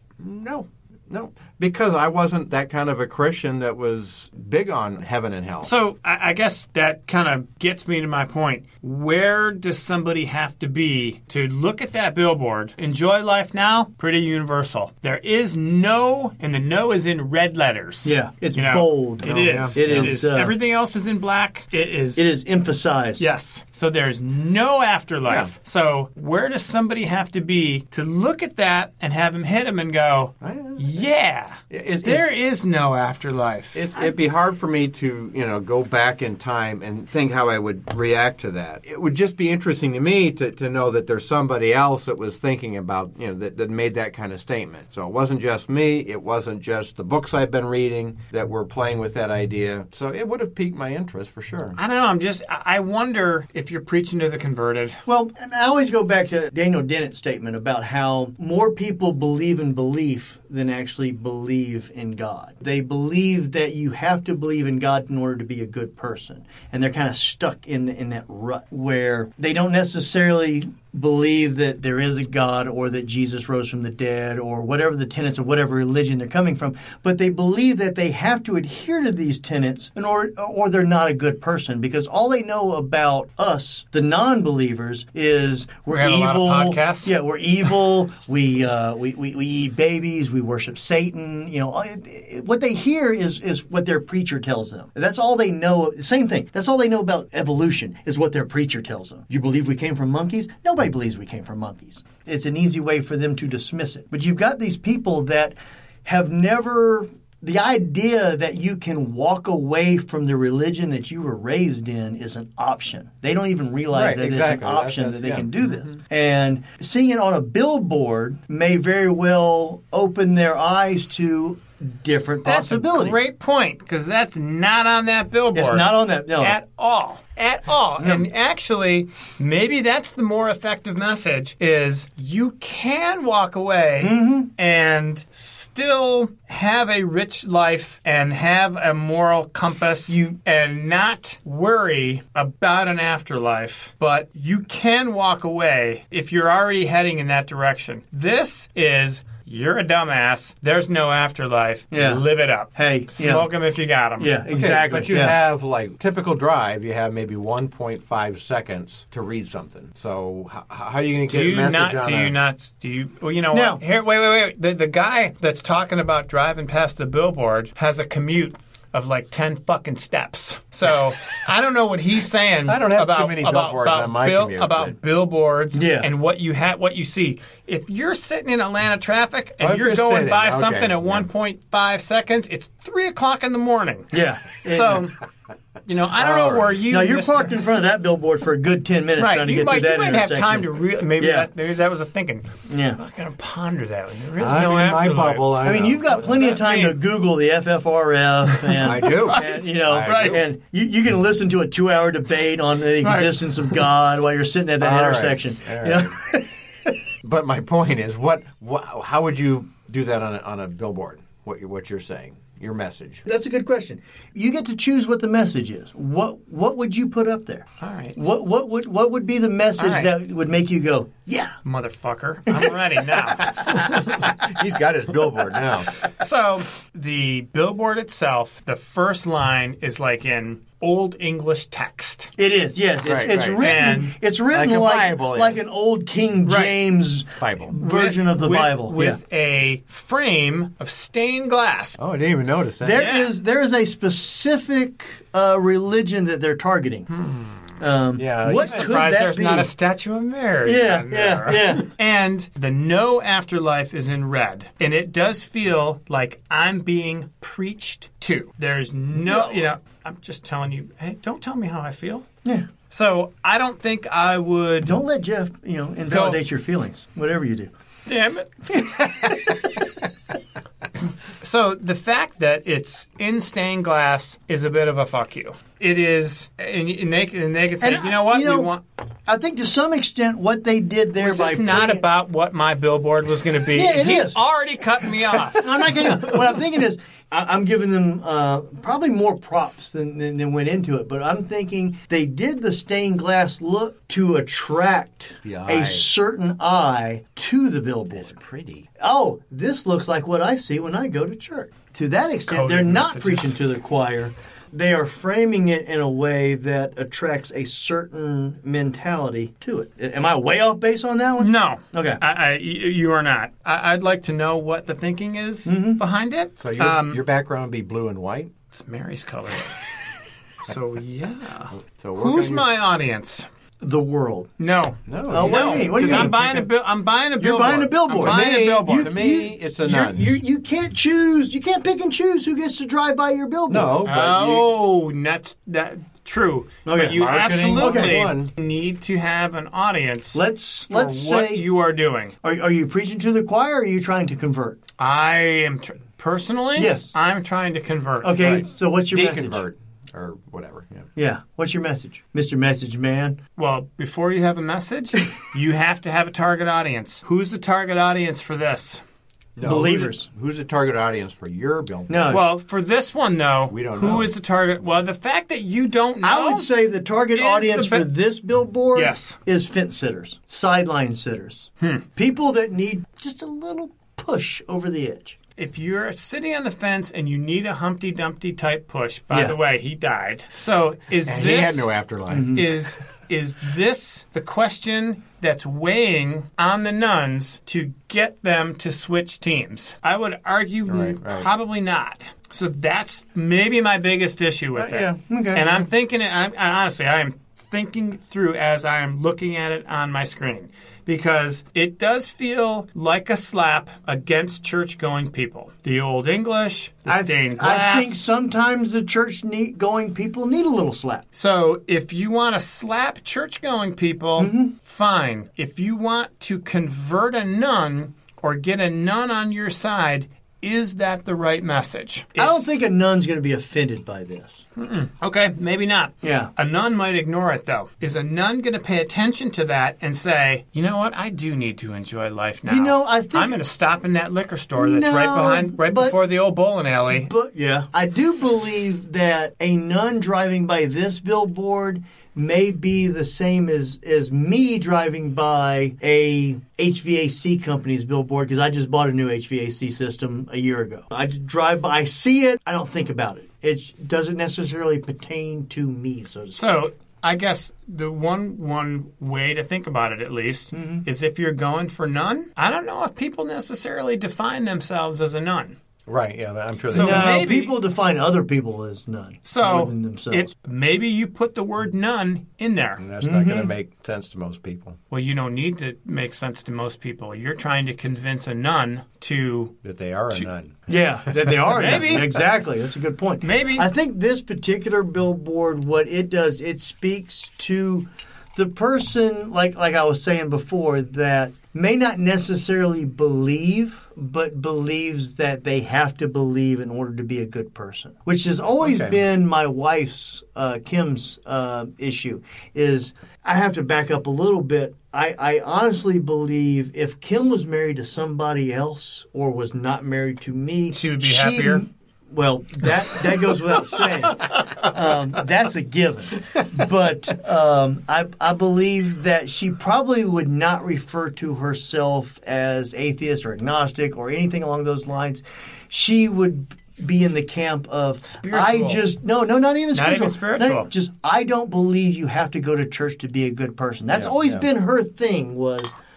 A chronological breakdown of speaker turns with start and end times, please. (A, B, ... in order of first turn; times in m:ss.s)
0:00.2-0:05.7 A
0:05.6-0:22.3 B
0:18.0-0:20.5 C
0:19.2-0:20.2 A
0:22.2-0:23.2 C
0:23.2-0:34.1 B
0:25.3-0:25.5 A
0:30.4-0:31.0 A
0:31.7-0:32.3 A
0:33.7-0:51.8 A
0:51.8-0:55.0 B
0:55.0-2:03.2 C
1:25.9-1:27.1 B
1:53.9-1:55.5 A
2:02.4-2:34.4 B
2:05.5-2:06.6 C
2:08.0-2:08.3 C
2:14.0-2:14.5 C
2:20.1-2:20.4 C
2:31.9-2:32.2 C
2:32.7-2:33.5 C
2:34.2-2:35.4 C
2:34.5-2:42.3 A
2:41.3-3:05.2 B
2:43.5-2:43.8 C
2:52.7-2:54.9 A
2:55.7-2:56.1 C
2:59.6-3:01.2 A
3:04.1-3:05.1 C
3:05.8-3:07.6 B
3:06.2-3:11.5 C
3:09.2-3:17.0 B
3:12.7-3:13.0 C
3:14.4-3:16.3 A
3:15.6-3:26.9 C
3:18.5-3:20.4 B
3:18.8-3:20.4 A
3:23.0-3:23.7 B
3:24.8-3:26.1 A
3:27.2-3:33.2 A
3:33.2-3:41.6 C
3:37.8-3:38.2 B
3:39.8-3:40.1 B
3:41.6-3:43.9 B
3:43.5-3:45.9 A
3:46.1-3:52.3 B
3:52.4-3:59.2 C
3:53.0-3:53.7 A
3:53.6-3:54.1 B
3:54.5-3:55.6 A
3:56.4-3:56.8 B
3:57.4-3:57.7 A
3:57.8-4:02.0 B
4:02.0-4:03.0 A
4:02.8-4:07.1 C
4:03.0-4:03.3 B
4:07.1-4:07.8 B
4:07.8-4:09.7 C
4:08.2-4:09.0 A
4:08.5-4:22.3 B
4:10.6-4:11.9 C
4:19.2-4:19.5 C
4:22.9-4:24.9 B
4:24.8-4:27.7 C
4:26.1-4:26.4 B
4:28.1-4:29.6 B
4:31.4-4:38.8 B
4:37.8-4:38.7 C
4:39.2-4:42.0 C
4:41.2-4:46.3 B
4:43.7-4:44.4 C
4:45.4-4:58.4 C
4:55.4-4:56.0 A
4:58.1-4:58.9 A
4:59.0-5:12.2 C
5:02.5-5:03.6 B
5:11.4-5:17.2 B
5:15.6-5:16.0 C
5:16.6-5:18.5 A
5:18.7-5:19.9 B
5:20.6-5:23.5 B
5:21.8-5:22.7 A
5:23.8-5:24.5 C
5:24.6-5:29.2 B
5:25.1-5:26.4 A
5:25.3-5:26.6 C
5:27.4-5:34.1 C
5:28.1-5:30.3 A
5:33.7-5:34.7 A
5:34.0-5:42.3 B
5:36.8-5:38.2 C
5:37.1-5:38.5 A
5:40.3-5:41.7 C
5:42.4-5:44.8 C
5:45.0-5:48.6 B
5:46.8-5:47.1 C
5:48.2-5:49.6 C
5:48.4-5:51.1 A
5:51.2-5:53.4 C
5:53.6-5:59.0 B
5:59.6-6:02.4 A
5:59.6-6:00.3 C
6:02.1-6:02.4 C
6:02.3-6:06.7 B
6:03.7-6:04.3 A
6:06.2-6:15.4 C
6:07.3-6:08.1 B
6:08.9-6:09.4 B
6:15.6-6:21.9 B
6:19.3-6:19.6 C
6:21.3-6:22.7 A
6:22.3-6:22.6 C
6:22.5-6:48.2 B
6:30.9-6:31.5 A
6:34.8-6:35.2 A
6:35.3-6:35.7 C
6:47.1-6:51.2 C
6:51.3-7:02.6 B
6:54.4-6:54.7 C
7:02.4-7:04.6 C
7:04.8-7:17.3 B
7:06.2-7:06.5 C
7:12.6-7:13.6 C
7:14.8-7:16.2 C
7:17.1-7:36.6 C
7:36.5-7:45.8 B
7:40.7-7:41.0 C
7:46.1-7:47.5 A
7:46.9-7:47.7 B
7:46.9-7:50.5 C
7:49.4-7:53.0 B
7:53.0-7:55.0 A
7:53.2-7:53.7 C
7:55.1-7:59.7 B
7:59.8-8:01.8 A
8:00.9-8:55.9 C
8:01.7-8:02.4 B
8:03.4-8:03.9 B
8:18.8-8:19.1 A
8:30.9-8:31.8 B
8:48.2-8:49.0 B
8:49.9-8:50.9 B
8:54.1-8:54.6 A